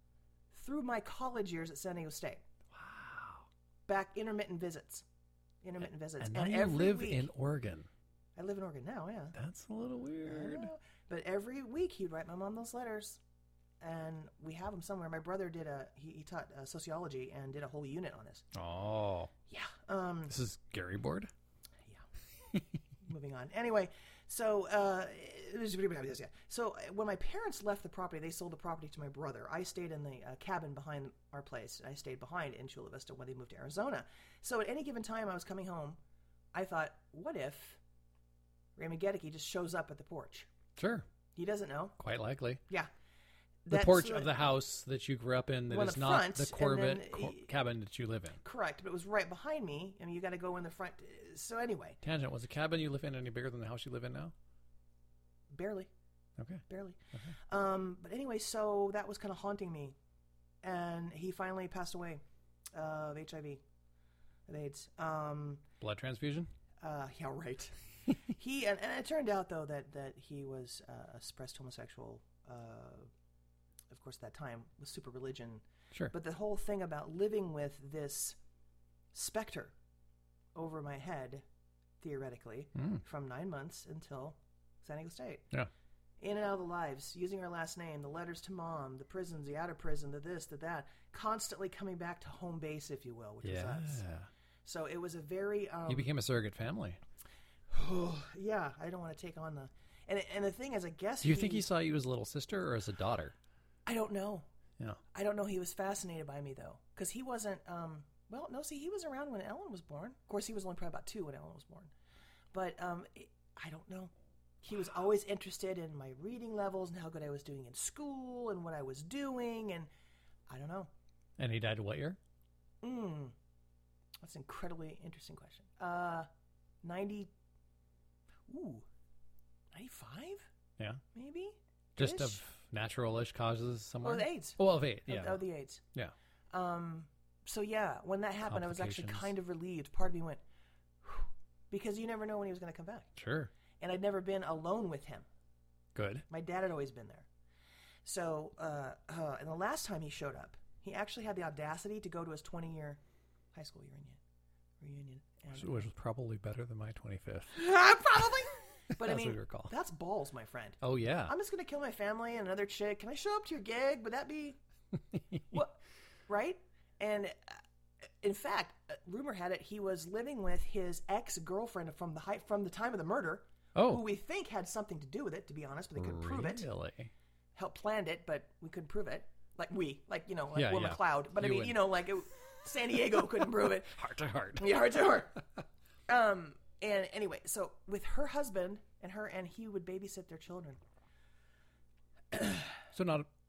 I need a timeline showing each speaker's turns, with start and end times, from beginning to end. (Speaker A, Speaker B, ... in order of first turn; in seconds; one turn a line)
Speaker A: 0.5-2.4
Speaker B: 2.7-3.5
Speaker A: 3.9-5.0
Speaker A: 5.6-7.3
Speaker B: 6.2-7.9
Speaker A: 8.3-9.3
Speaker B: 9.3-10.7
Speaker A: 10.2-13.2
Speaker A: 13.8-18.4
Speaker B: 18.5-19.3
Speaker A: 19.5-20.3
Speaker B: 20.3-21.3
Speaker A: 23.0-36.0
Speaker A: 36.5-37.8
Speaker A: 38.8-40.5
Speaker B: 40.8-41.0
Speaker A: 41.4-42.0
Speaker B: 42.0-42.6
Speaker A: 43.6-44.3
Speaker B: 43.7-48.4
Speaker A: 45.7-47.5
Speaker A: 48.4-52.0
Speaker B: 52.0-54.3
Speaker A: 55.5-55.9
Speaker B: 56.4-57.3
Speaker A: 56.7-60.0
Speaker A: 60.6-62.2
Speaker A: 62.7-63.6
Speaker A: 64.5-65.6
Speaker B: 65.8-66.5
Speaker A: 66.8-73.1
Speaker A: 73.9-78.4
Speaker A: 79.1-79.7
Speaker A: 80.5-81.4
Speaker A: 82.0-85.4
Speaker B: 82.8-83.0
Speaker A: 86.2-94.0
Speaker B: 93.4-94.3
Speaker A: 94.6-96.1
Speaker B: 95.9-97.0
Speaker A: 97.7-101.7
Speaker B: 101.2-103.3
Speaker A: 103.8-104.5
Speaker A: 105.1-111.9
Speaker A: 112.5-114.1
Speaker A: 114.6-119.9
Speaker A: 120.5-120.9
Speaker B: 121.4-122.2
Speaker A: 122.8-123.3
Speaker A: 124.2-126.3
Speaker A: 126.8-127.3
Speaker A: 128.5-128.8
Speaker A: 129.7-130.5
Speaker A: 131.1-132.4
Speaker B: 132.0-135.4
Speaker A: 134.0-135.8
Speaker A: 136.5-140.4
Speaker B: 138.5-139.3
Speaker A: 141.0-143.1
Speaker B: 143.2-143.5
Speaker A: 143.8-145.2
Speaker B: 145.9-146.2
Speaker A: 146.3-147.3
Speaker A: 148.0-153.0
Speaker A: 153.5-154.2
Speaker A: 154.8-155.8
Speaker B: 155.5-157.5
Speaker A: 157.5-164.6
Speaker B: 159.0-159.7
Speaker B: 160.8-161.3
Speaker B: 165.1-165.5
Speaker A: 165.5-167.6
Speaker A: 168.2-176.7
Speaker B: 173.7-174.0
Speaker B: 175.9-177.1
Speaker A: 177.6-183.9
Speaker B: 180.5-181.8
Speaker B: 183.8-184.7
Speaker A: 184.6-185.4
Speaker A: 186.1-190.8
Speaker A: 192.3-192.6
Speaker B: 192.9-193.3